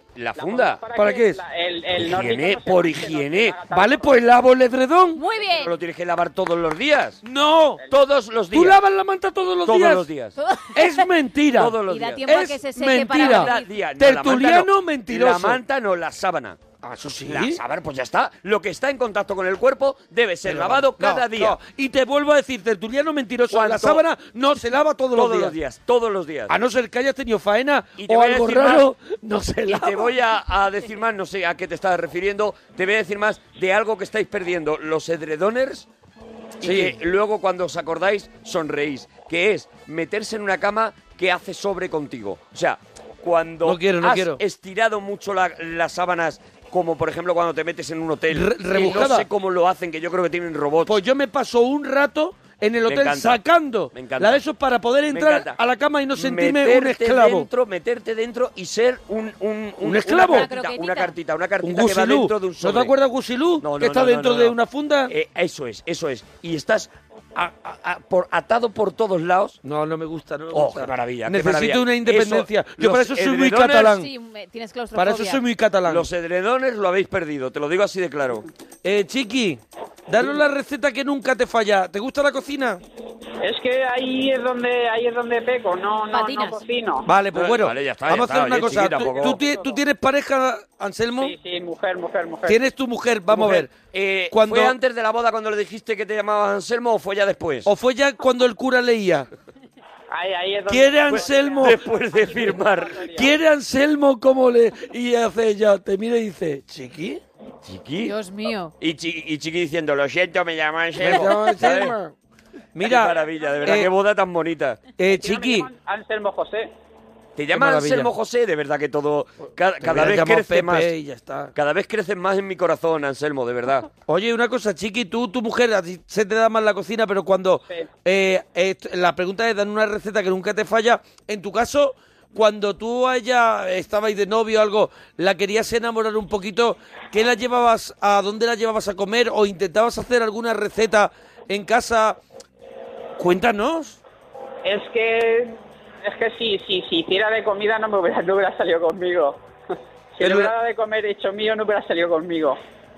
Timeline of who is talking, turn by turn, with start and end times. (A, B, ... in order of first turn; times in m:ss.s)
0:00.1-0:00.8 A
0:00.4-0:04.2 B
0:00.9-0:01.4 C
0:01.9-0:03.6 A
0:03.7-0:05.2 C
0:05.1-0:05.7 D
0:05.6-0:07.2 A
0:07.2-0:07.8 C
0:07.9-0:08.8 A
0:08.5-0:10.0 C
0:09.6-0:10.3 A
0:10.4-0:11.0 D
0:10.7-0:15.6 C
0:11.6-0:12.2 A
0:11.9-0:13.7 D
0:13.0-0:16.6 A
0:16.8-0:17.6 C
0:17.3-0:21.6 A
0:20.4-0:25.6 C
0:23.5-0:24.0 A
0:25.1-0:26.5 A
0:26.5-0:30.1 C
0:28.0-0:28.9 A
0:29.7-0:35.9 A
0:36.6-0:51.0 A
0:36.6-0:37.0 C
0:43.6-0:44.4 C
0:48.3-0:49.3 C
0:50.8-0:57.5 C
0:52.9-0:53.4 A
0:53.9-0:54.4 A
0:55.1-0:55.6 A
0:56.1-1:02.9 A
0:59.8-1:00.5 C
1:00.3-1:01.1 D
1:01.6-1:05.1 C
1:03.6-1:04.6 A
1:05.1-1:09.6 A
1:09.6-1:14.1 C
1:10.5-1:14.0 A
1:13.9-1:15.4 D
1:14.9-1:16.1 C
1:15.8-1:18.4 A
1:18.8-1:22.8 C
1:23.4-1:27.1 B
1:26.1-1:26.6 D
1:27.0-1:31.4 C
1:27.3-1:29.4 A
1:29.0-1:29.8 B
1:31.2-1:32.6 B
1:32.5-1:33.7 C
1:33.3-1:37.7 A
1:34.3-1:34.8 C
1:37.6-1:39.3 C
1:40.1-1:43.3 B
1:40.7-1:41.8 C
1:41.1-1:43.0 A
1:43.1-1:47.2 C
1:47.6-1:48.1 A
1:48.0-1:48.7 D
1:48.8-1:52.0 A
1:51.0-1:52.1 C
1:52.7-1:53.9 C
1:52.8-1:54.8 A
1:55.0-1:55.7 C
1:55.1-1:56.7 B
1:57.4-2:00.9 A
1:57.5-1:58.1 C
1:59.8-2:01.5 C
2:01.5-2:03.9 A
2:04.1-2:22.2 C
2:23.2-2:24.0 C
2:24.6-2:29.4 B
2:30.1-2:32.6 B
2:30.2-2:30.5 C